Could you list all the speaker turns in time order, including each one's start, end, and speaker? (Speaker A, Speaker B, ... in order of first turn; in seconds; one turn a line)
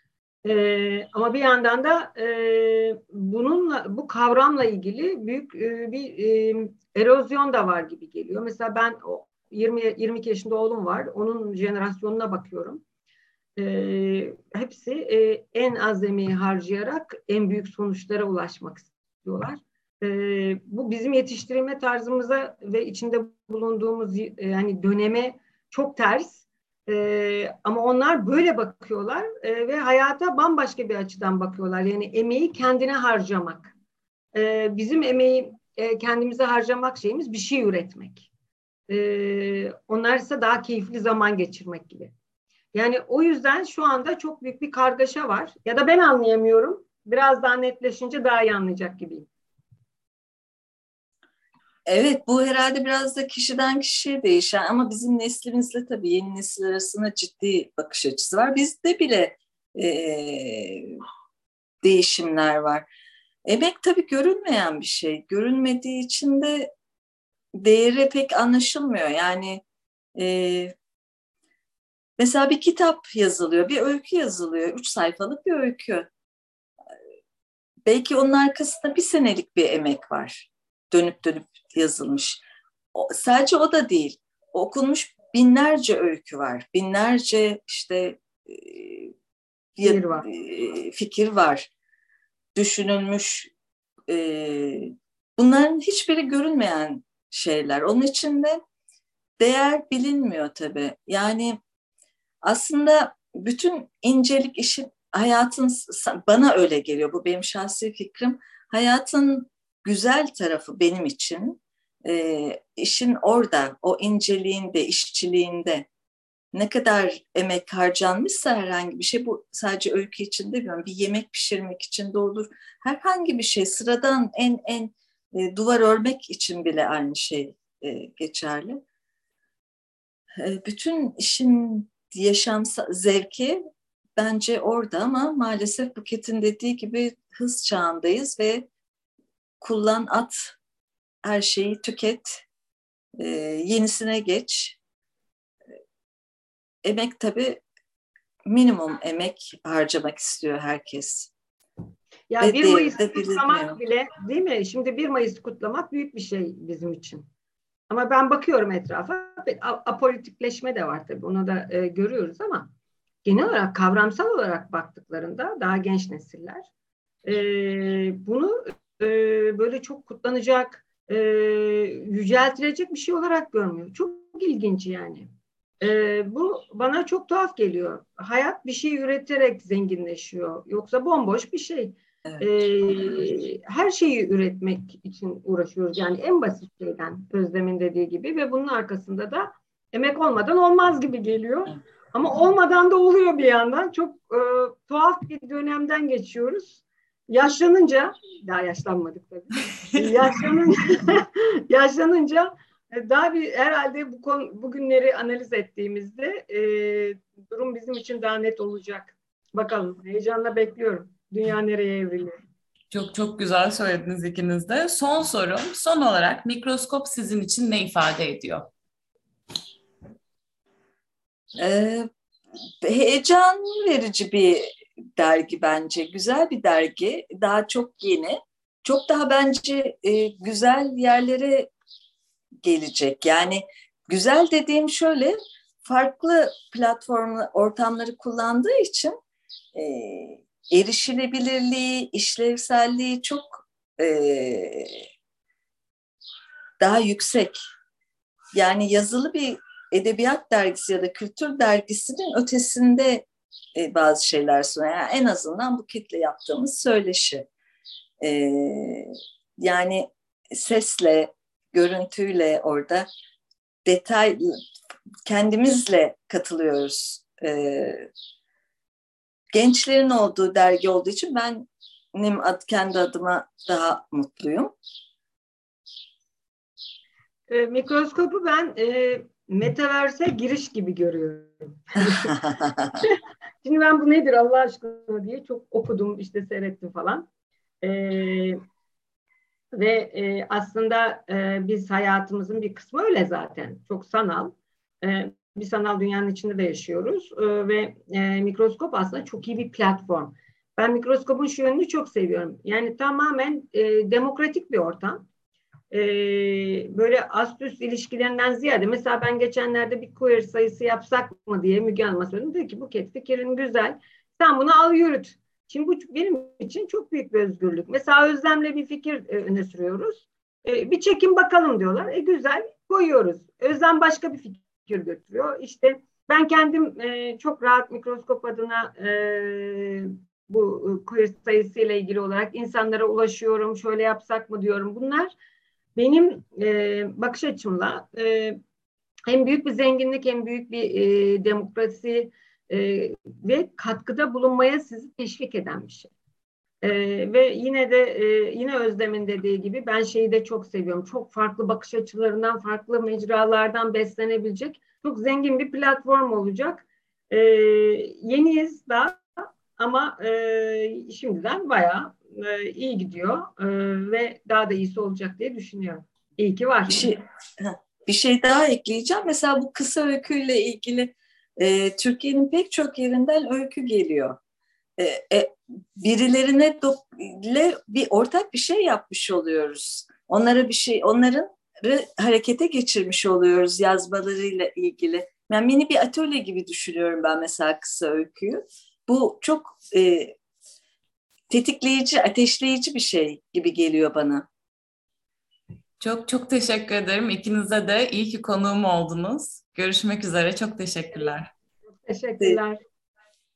Speaker A: 0.5-12.8
Speaker A: 13.6-33.7
Speaker A: 34.3-38.3
Speaker A: 38.9-42.1
Speaker A: 42.7-49.3
Speaker B: 51.9-61.0
Speaker B: 61.8-62.9
Speaker B: 63.5-66.7
Speaker B: 67.6-69.6
Speaker B: 70.2-70.8
Speaker B: 72.2-76.1
Speaker B: 77.9-82.4
Speaker B: 82.9-89.1
Speaker B: 89.8-91.7
Speaker A: 89.8-90.3
Speaker B: 92.5-93.5
Speaker B: 94.1-98.6
Speaker B: 99.4-101.6
Speaker B: 102.4-115.9
Speaker B: 116.5-128.8
Speaker B: 130.4-133.6
Speaker B: 134.2-138.7
Speaker B: 139.6-140.5
Speaker B: 141.2-142.4
Speaker B: 143.2-144.8
Speaker B: 146.8-147.6
Speaker B: 148.5-151.3
Speaker A: 152.3-157.2
Speaker B: 152.4-153.8
Speaker A: 157.9-162.7
Speaker A: 163.2-166.7
Speaker A: 167.2-175.3
Speaker A: 175.8-212.4
Speaker C: 212.9-218.7
Speaker B: 221.6-222.1
Speaker B: 222.8-231.7
Speaker B: 232.6-239.2
Speaker B: 239.7-245.0
Speaker B: 246.8-247.6
Speaker B: 248.5-257.5
Speaker B: 258.2-263.1
Speaker B: 263.9-264.6
Speaker B: 265.2-268.1
Speaker B: 269.5-274.7
Speaker A: 277.5-282.4
Speaker B: 282.6-282.9
Speaker A: 283.0-287.2
Speaker A: 287.8-288.6
Speaker A: 289.7-305.2
Speaker A: 305.9-335.3
Speaker A: 336.0-338.6
Speaker A: 339.3-346.1
Speaker A: 346.8-367.1
Speaker B: 366.9-374.4
Speaker B: 375.0-390.4
Speaker B: 391.5-394.5
Speaker C: 396.0-401.5
Speaker A: 401.9-402.8